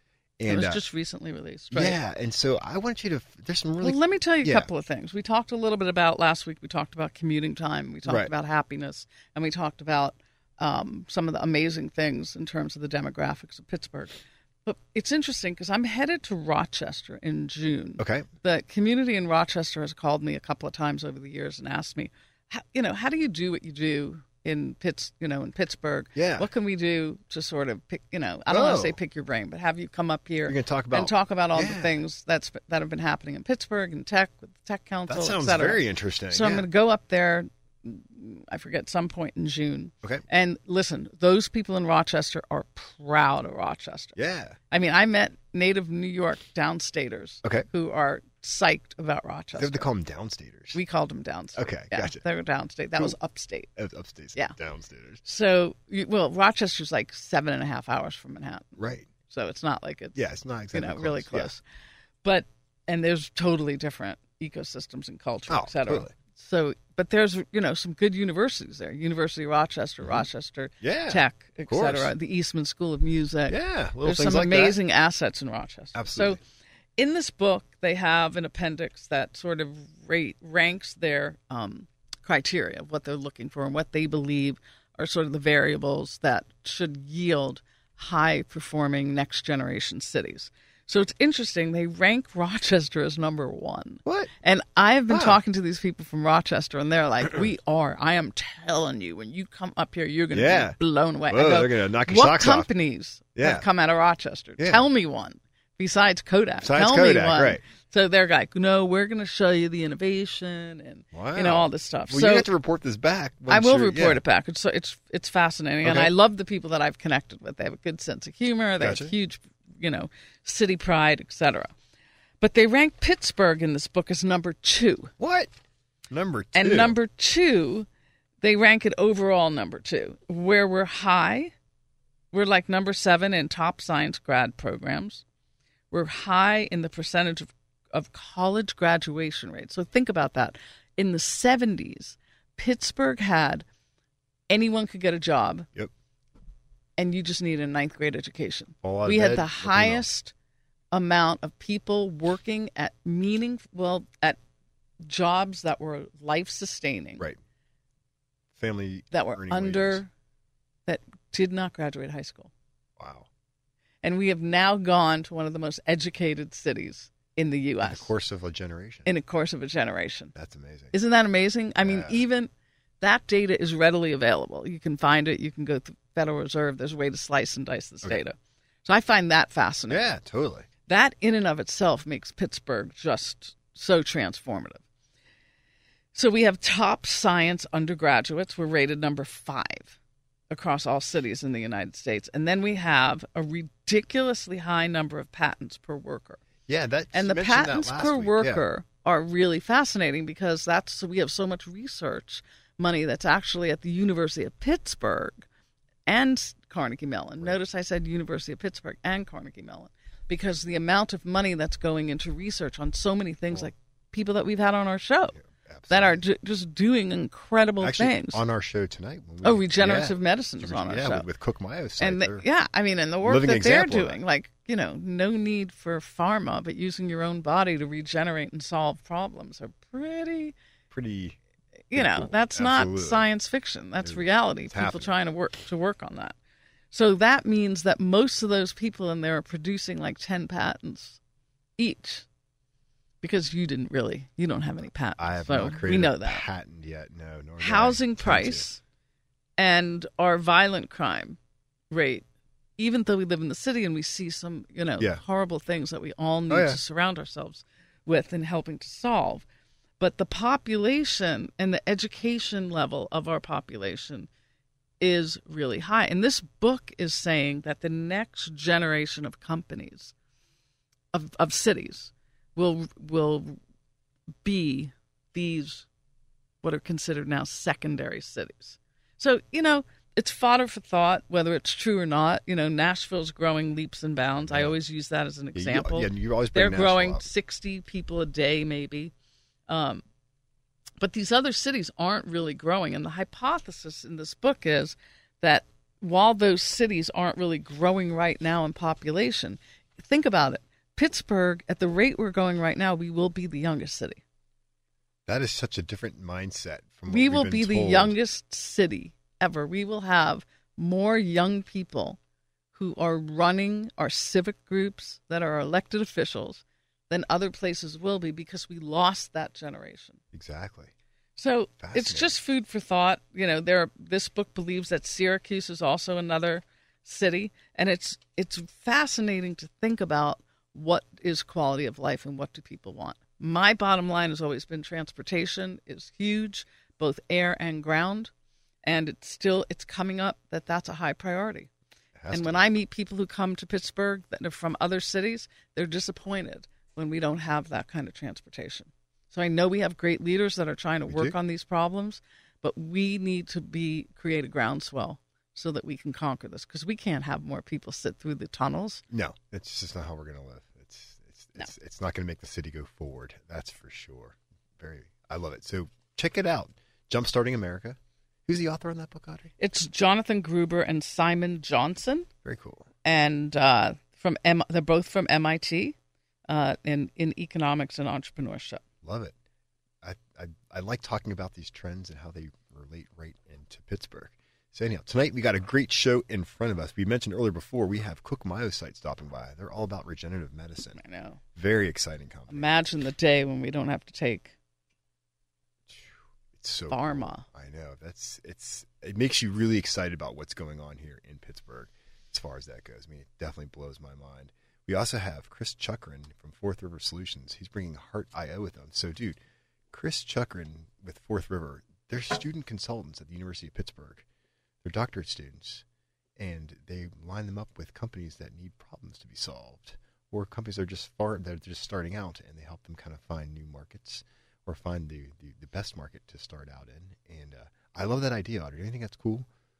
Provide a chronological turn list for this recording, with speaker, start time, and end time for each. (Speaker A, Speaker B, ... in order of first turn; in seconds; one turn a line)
Speaker A: 0.4-0.8
Speaker B: 0.5-2.0
Speaker A: 1.7-4.7
Speaker B: 3.8-44.1
Speaker A: 8.0-8.3
Speaker A: 18.0-18.3
Speaker A: 26.1-26.5
Speaker A: 28.5-29.0
Speaker A: 30.4-32.0
Speaker A: 35.1-36.7
Speaker A: 44.1-44.6
Speaker B: 44.7-49.9
Speaker A: 49.5-50.8
Speaker B: 50.7-53.7
Speaker A: 51.5-52.2
Speaker A: 53.8-55.2
Speaker B: 55.2-60.2
Speaker A: 58.8-59.1
Speaker A: 60.1-61.5
Speaker B: 60.7-61.6
Speaker B: 62.2-76.4
Speaker A: 65.5-66.1
Speaker A: 70.8-72.1
Speaker A: 73.5-74.8
Speaker A: 75.9-76.4
Speaker B: 77.0-112.5
Speaker A: 94.0-94.3
Speaker A: 95.1-95.4
Speaker A: 100.3-102.7
Speaker A: 103.3-103.7
Speaker A: 104.6-104.8
Speaker A: 106.6-107.6
Speaker A: 111.1-114.2
Speaker B: 113.5-121.7
Speaker A: 115.8-116.1
Speaker A: 118.8-119.1
Speaker B: 122.4-125.1
Speaker A: 125.2-125.5
Speaker A: 126.1-127.0
Speaker B: 126.5-127.9
Speaker B: 128.4-131.5
Speaker B: 132.3-135.2
Speaker B: 135.9-143.6
Speaker B: 144.5-145.7
Speaker B: 147.0-150.3
Speaker A: 148.8-150.1
Speaker B: 150.9-154.4
Speaker B: 155.0-157.2
Speaker A: 158.5-160.0
Speaker B: 159.1-160.1
Speaker B: 160.8-162.5
Speaker A: 163.0-163.3
Speaker B: 164.0-168.1
Speaker A: 167.8-169.1
Speaker B: 169.0-170.3
Speaker A: 170.3-170.9
Speaker B: 170.9-180.2
Speaker A: 171.8-172.2
Speaker A: 179.9-180.7
Speaker B: 180.9-184.8
Speaker B: 186.1-189.9
Speaker B: 190.5-196.4
Speaker A: 196.7-198.6
Speaker B: 197.1-205.4
Speaker B: 206.1-215.4
Speaker A: 215.3-216.2
Speaker B: 215.9-218.4
Speaker A: 217.8-222.4
Speaker B: 219.4-221.3
Speaker B: 222.0-230.5
Speaker A: 223.2-224.2
Speaker A: 230.9-231.4
Speaker B: 231.9-236.3
Speaker A: 231.9-233.2
Speaker A: 234.0-235.1
Speaker B: 236.9-241.2
Speaker B: 241.8-242.2
Speaker B: 243.2-246.4
Speaker A: 245.2-248.7
Speaker B: 247.6-248.8
Speaker B: 249.6-251.4
Speaker B: 251.9-252.2
Speaker B: 252.8-259.4
Speaker A: 256.5-256.8
Speaker B: 260.0-264.3
Speaker B: 265.0-270.1
Speaker B: 271.1-273.6
Speaker B: 274.4-275.9
Speaker B: 276.6-289.1
Speaker A: 284.4-284.8
Speaker A: 285.5-287.3
Speaker B: 289.7-290.0
Speaker B: 291.0-304.2
Speaker A: 305.2-308.1
Speaker B: 307.1-312.2
Speaker B: 312.7-320.2
Speaker A: 320.3-320.9
Speaker B: 321.4-338.3
Speaker A: 321.8-322.3
Speaker B: 338.8-341.7
Speaker A: 342.2-342.7
Speaker B: 342.3-359.0
Speaker A: 351.1-351.3
Speaker A: 359.1-369.5
Speaker B: 369.6-372.3
Speaker A: 372.4-372.9
Speaker B: 373.0-375.9
Speaker B: 376.5-378.8
Speaker A: 379.0-379.3
Speaker A: 380.0-391.0
Speaker B: 390.9-391.4
Speaker A: 391.5-392.7
Speaker B: 392.5-394.5
Speaker A: 395.9-409.4
Speaker B: 396.9-397.4
Speaker A: 409.9-414.2
Speaker A: 414.8-415.8
Speaker A: 416.4-429.5